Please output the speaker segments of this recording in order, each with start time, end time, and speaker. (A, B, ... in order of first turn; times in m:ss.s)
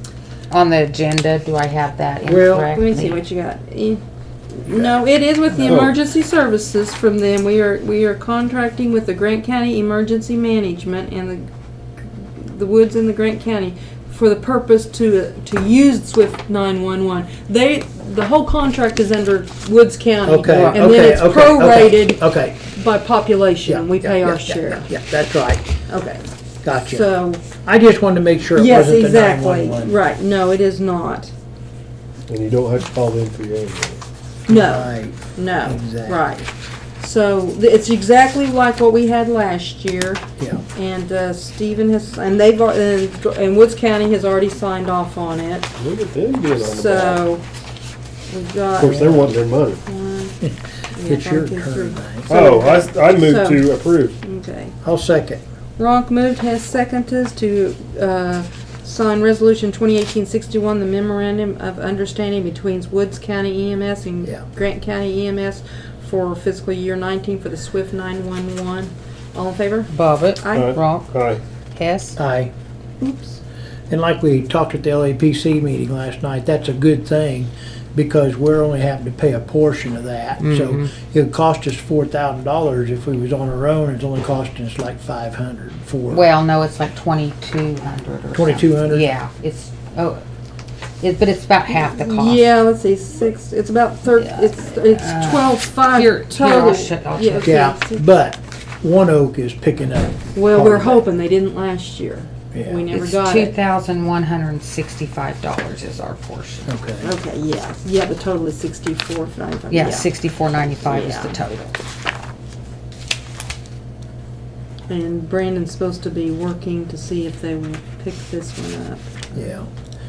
0:00.5-0:03.2 A
0:02.2-0:02.7 B
0:02.7-0:11.5 C
0:05.6-0:05.9 D
0:12.2-0:24.9 C
0:20.2-0:22.6 B
0:20.4-0:20.9 A
0:23.6-0:25.7 B
0:25.9-0:27.4 C
0:26.6-0:30.0 B
0:28.5-0:31.3 C
0:32.3-0:34.0 D
0:34.5-0:36.2 B
0:34.5-0:36.5 C
0:37.0-0:45.7 C
0:45.8-0:47.2 D
0:46.6-0:47.4 C
0:48.3-0:50.4 C
0:48.8-0:49.8 D
0:50.4-0:52.3 B
0:50.9-0:54.7 C
0:52.3-0:54.1 D
0:54.8-0:55.4 B
0:55.8-1:10.8 C
1:09.9-1:11.1 A
1:10.5-1:11.4 D
1:11.8-1:12.2 A
1:12.2-1:12.5 B
1:13.0-1:13.4 C
1:13.9-1:26.2 B
1:20.4-1:20.9 A
1:26.1-1:30.2 A
1:28.3-1:29.1 B
1:31.0-1:32.5 A
1:31.8-1:38.0 C
1:34.2-1:37.7 A
1:37.4-1:41.0 B
1:40.3-1:43.5 C
1:42.5-1:42.8 B
1:42.9-1:46.7 A
1:46.7-1:47.1 B
1:47.0-1:50.1 C
1:49.7-1:51.7 A
1:50.8-1:51.4 C
1:54.9-1:59.2 C
1:59.3-1:59.7 B